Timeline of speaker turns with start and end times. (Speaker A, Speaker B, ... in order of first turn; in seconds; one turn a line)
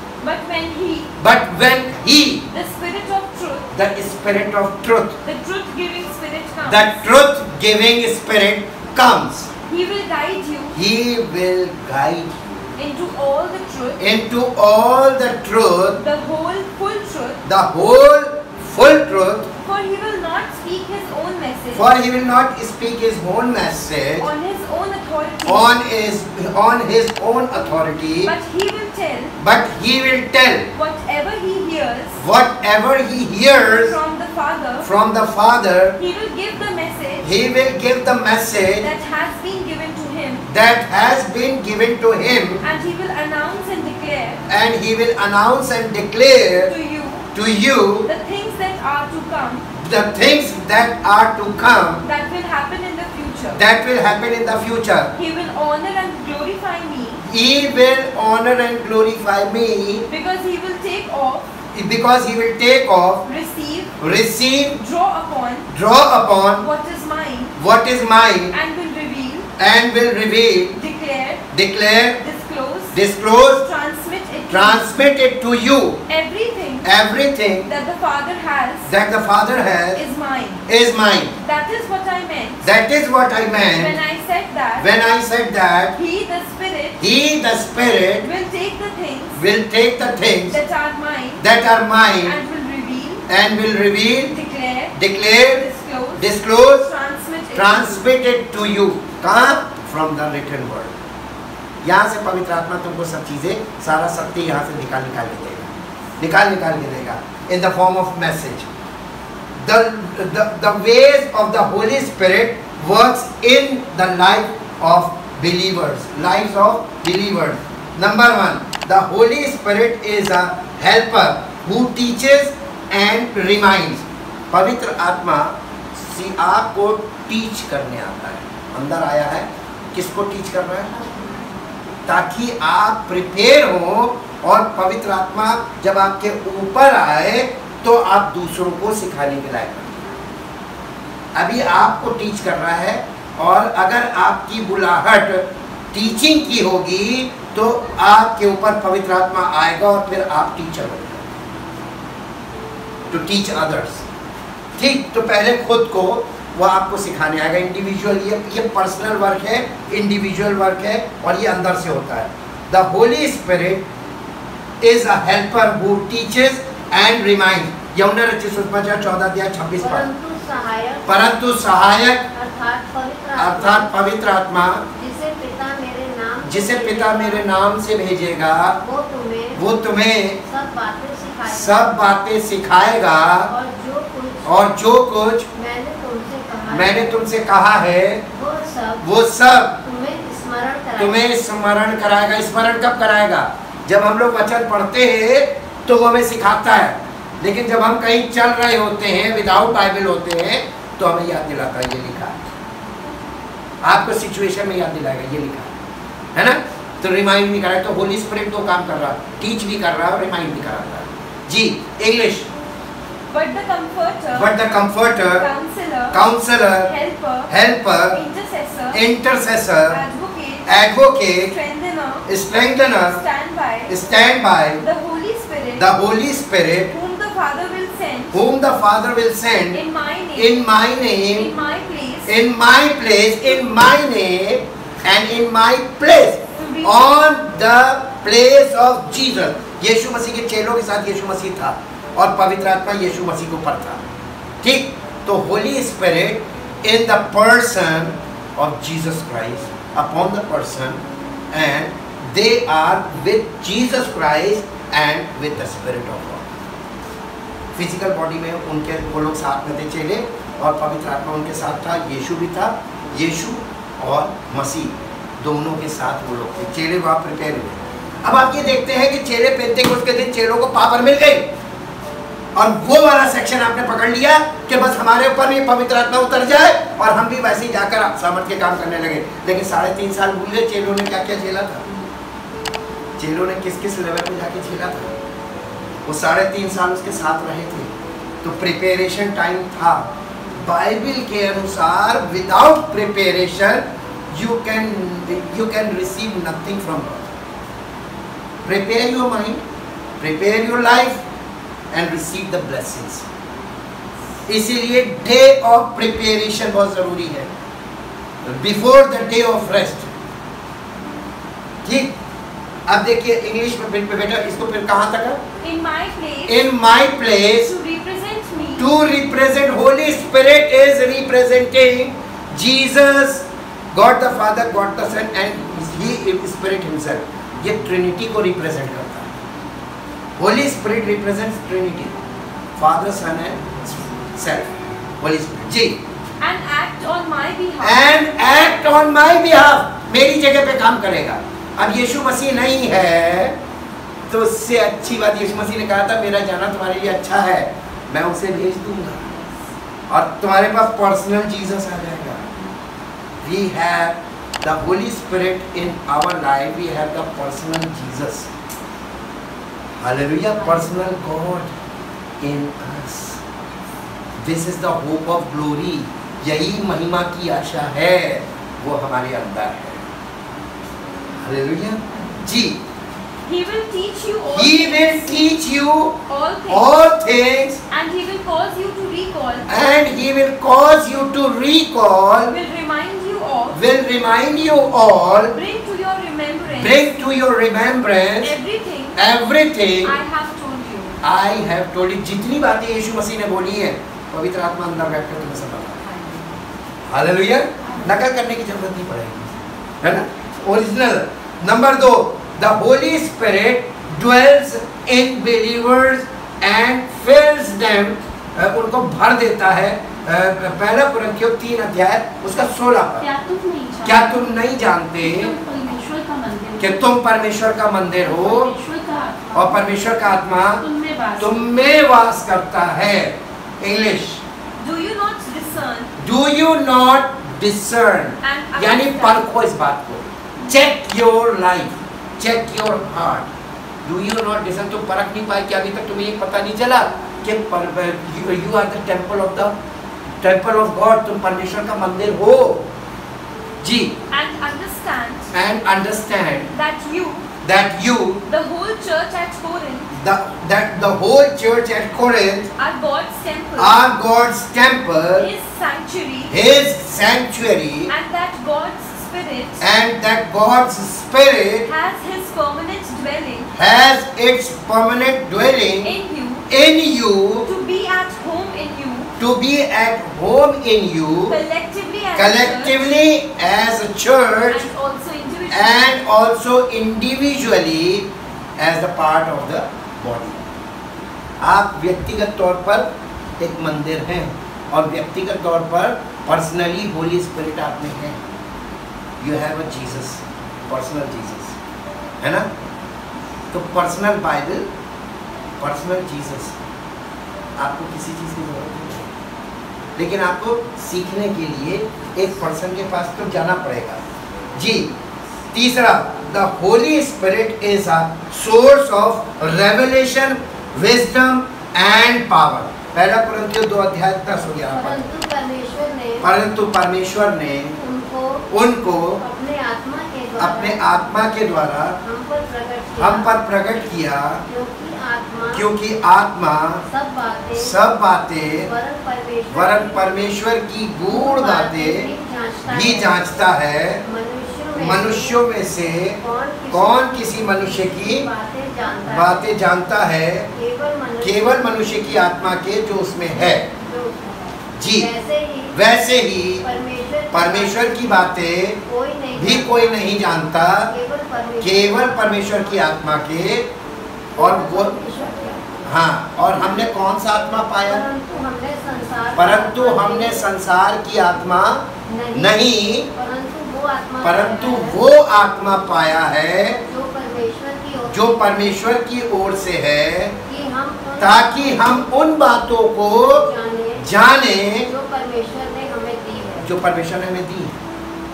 Speaker A: 0.2-1.1
Speaker B: 1.2-2.5
Speaker A: 2.5-3.7
Speaker B: 3.7-5.2
Speaker A: 5.2-7.0
Speaker B: 6.6-9.5
Speaker A: 9.7-10.7
Speaker B: 10.7-12.7
Speaker A: 12.8-14.0
Speaker B: 14.0-16.0
Speaker A: 16.0-17.4
Speaker B: 17.4-19.5
Speaker A: 19.6-21.9
Speaker B: 21.7-24.3
Speaker A: 24.2-25.7
Speaker B: 25.4-28.3
Speaker A: 28.2-29.3
Speaker B: 29.4-30.7
Speaker A: 30.7-32.2
Speaker B: 32.2-34.0
Speaker A: 33.5-34.9
Speaker B: 34.8-36.0
Speaker A: 36.0-37.2
Speaker B: 37.2-38.9
Speaker A: 38.8-40.5
Speaker B: 40.5-42.6
Speaker A: 42.6-44.4
Speaker B: 44.5-46.7
Speaker A: 46.6-47.3
Speaker B: 47.3-48.1
Speaker A: 48.0-49.7
Speaker B: 49.8-52.0
Speaker A: 52.0-53.6
Speaker B: 53.5-55.1
Speaker A: 55.1-57.2
Speaker B: 57.2-60.0
Speaker A: 60.1-61.4
Speaker B: 61.7-63.2
Speaker A: 63.2-63.9
Speaker B: 64.0-64.8
Speaker A: 64.7-65.7
Speaker B: 65.7-66.7
Speaker A: 66.6-67.5
Speaker B: 67.6-68.5
Speaker A: 68.5-69.5
Speaker B: 69.6-70.7
Speaker A: 70.7-71.5
Speaker B: 71.5-72.2
Speaker A: 72.2-74.8
Speaker B: 72.9-73.6
Speaker B: 74.5-76.0
Speaker A: 76.1-76.9
Speaker B: 76.8-77.7
Speaker A: 77.6-78.9
Speaker B: 78.9-80.0
Speaker A: 79.9-80.6
Speaker B: 80.7-81.3
Speaker A: 81.4-82.7
Speaker B: 82.6-84.0
Speaker A: 83.7-84.9
Speaker B: 84.8-85.9
Speaker A: 85.9-87.0
Speaker B: 87.0-88.3
Speaker A: 88.2-89.4
Speaker B: 89.4-90.6
Speaker A: 90.5-91.4
Speaker B: 91.4-92.4
Speaker A: 92.2-93.2
Speaker B: 93.3-94.3
Speaker A: 94.3-98.1
Speaker B: 94.9-96.9
Speaker B: 97.5-100.9
Speaker B: 101.8-108.7
Speaker B: 109.6-130.9
Speaker B: 132.1-140.2
Speaker B: 141.3-151.3
Speaker B: 153.1-154.0
Speaker B: 154.8-163.8
Speaker B: 164.8-170.1
Speaker C: 169.8-171.3
Speaker B: 171.1-172.2
Speaker C: 172.3-173.9
Speaker B: 173.4-174.8
Speaker C: 174.9-177.4
Speaker B: 176.4-178.8
Speaker C: 178.8-179.6
Speaker B: 179.6-180.4
Speaker C: 180.4-181.9
Speaker B: 181.4-183.5
Speaker C: 183.5-184.5
Speaker B: 184.4-185.4
Speaker C: 185.5-187.2
Speaker B: 186.7-188.2
Speaker C: 188.3-189.0
Speaker B: 189.0-189.8
Speaker C: 189.8-191.3
Speaker B: 191.0-202.5
Speaker B: 203.8-205.8
Speaker B: 206.3-212.5
Speaker A: 213.3-214.5
Speaker B: 214.3-215.5
Speaker A: 215.3-216.2
Speaker B: 216.1-216.9
Speaker A: 216.8-217.5
Speaker B: 217.5-218.2
Speaker A: 218.1-219.0
Speaker B: 218.9-220.0
Speaker A: 219.9-220.7
Speaker B: 220.7-221.5
Speaker A: 221.4-223.9
Speaker B: 222.3-223.2
Speaker B: 223.9-224.8
Speaker A: 224.8-225.9
Speaker B: 225.8-226.9
Speaker A: 226.9-228.4
Speaker B: 228.3-229.8
Speaker A: 229.7-230.7
Speaker B: 230.3-231.5
Speaker A: 231.3-232.3
Speaker B: 232.3-244.0
Speaker A: 236.6-237.2
Speaker B: 244.6-256.5
Speaker B: 257.7-271.5
Speaker B: 272.5-281.8
Speaker B: 283.2-285.1
Speaker B: 286.0-297.4
Speaker B: 298.6-299.6
Speaker B: 300.2-301.2
Speaker B: 301.9-303.2
Speaker B: 304.5-307.5
Speaker B: 308.4-310.1
Speaker B: 311.8-312.1
Speaker B: 312.9-315.4
Speaker A: 315.6-316.7
Speaker B: 316.4-317.7
Speaker A: 317.4-318.9
Speaker B: 318.8-329.3
Speaker B: 330.4-332.2
Speaker B: 332.8-336.0
Speaker A: 336.4-338.3
Speaker B: 337.8-343.6
Speaker B: 344.3-349.4
Speaker B: 350.1-352.5
Speaker B: 353.4-358.5
Speaker B: 360.0-361.8
Speaker B: 362.4-363.4
Speaker B: 364.4-370.0
Speaker B: 371.4-372.8
Speaker A: 373.4-375.5
Speaker B: 374.5-377.8
Speaker A: 376.3-376.9
Speaker A: 377.9-379.7
Speaker B: 379.7-382.6
Speaker A: 382.5-383.8
Speaker B: 383.7-385.5
Speaker A: 385.5-387.1
Speaker B: 386.8-388.6
Speaker A: 388.4-389.2
Speaker B: 389.1-390.2
Speaker A: 390.0-391.1
Speaker B: 391.2-396.0
Speaker B: 397.1-413.3
Speaker D: 413.2-414.5
Speaker B: 414.0-415.5
Speaker D: 415.2-417.0
Speaker B: 416.8-418.7
Speaker D: 418.2-421.7
Speaker B: 419.5-420.8
Speaker B: 421.4-424.4
Speaker A: 424.8-426.1
Speaker B: 426.2-433.5
Speaker A: 428.4-429.4
Speaker B: 434.0-439.7
Speaker B: 440.4-442.9
Speaker B: 443.8-444.1
Speaker A: 444.3-445.5
Speaker B: 445.5-446.7
Speaker A: 446.7-447.5
Speaker B: 447.6-448.4
Speaker A: 448.4-450.1
Speaker B: 450.1-452.7
Speaker A: 452.8-454.0
Speaker B: 453.8-455.5
Speaker A: 455.4-456.5
Speaker B: 456.5-458.1
Speaker A: 458.1-459.9
Speaker B: 459.8-461.9
Speaker A: 461.9-463.7
Speaker B: 463.7-466.1
Speaker A: 466.0-466.6
Speaker B: 466.7-467.7
Speaker A: 467.6-469.3
Speaker B: 469.4-471.6
Speaker A: 471.5-473.1
Speaker B: 472.4-474.9
Speaker A: 474.7-476.2
Speaker B: 475.7-480.7
Speaker B: 481.6-483.1
Speaker B: 483.6-488.4
Speaker B: 489.4-491.8
Speaker B: 492.4-492.7
Speaker B: 493.7-494.9
Speaker B: 495.8-496.7
Speaker B: 497.8-499.3
Speaker B: 500.1-504.2
Speaker B: 504.7-505.1
Speaker B: 505.7-515.2
Speaker C: 514.9-516.5
Speaker B: 516.4-518.0
Speaker C: 518.0-518.6
Speaker B: 518.7-519.4
Speaker C: 519.4-521.0
Speaker B: 520.6-522.2
Speaker C: 522.2-523.5
Speaker B: 523.2-524.6
Speaker C: 524.6-525.9
Speaker B: 525.7-527.0
Speaker C: 527.1-528.0
Speaker B: 527.8-528.9
Speaker C: 528.8-530.2
Speaker B: 529.7-532.3
Speaker C: 531.3-533.4
Speaker B: 532.9-534.2
Speaker C: 534.2-535.6
Speaker B: 535.0-536.4
Speaker C: 536.4-539.7
Speaker B: 536.9-538.5
Speaker B: 539.3-540.7
Speaker C: 540.7-542.5
Speaker B: 541.4-543.8
Speaker C: 543.6-546.0
Speaker B: 545.0-545.3
Speaker B: 545.9-546.8
Speaker C: 546.8-548.3
Speaker B: 547.5-549.0
Speaker C: 549.0-550.2
Speaker B: 549.5-551.1
Speaker C: 551.0-553.1
Speaker B: 551.8-553.9
Speaker C: 554.5-556.1
Speaker B: 554.6-555.1
Speaker B: 556.0-558.2
Speaker C: 558.0-560.7
Speaker B: 559.5-563.3
Speaker C: 562.2-565.2
Speaker B: 564.4-567.0
Speaker C: 567.0-569.0
Speaker B: 568.3-570.6
Speaker C: 570.6-572.3
Speaker B: 571.4-573.7
Speaker C: 573.5-574.2
Speaker B: 574.2-575.1
Speaker C: 575.0-576.9
Speaker B: 576.8-578.0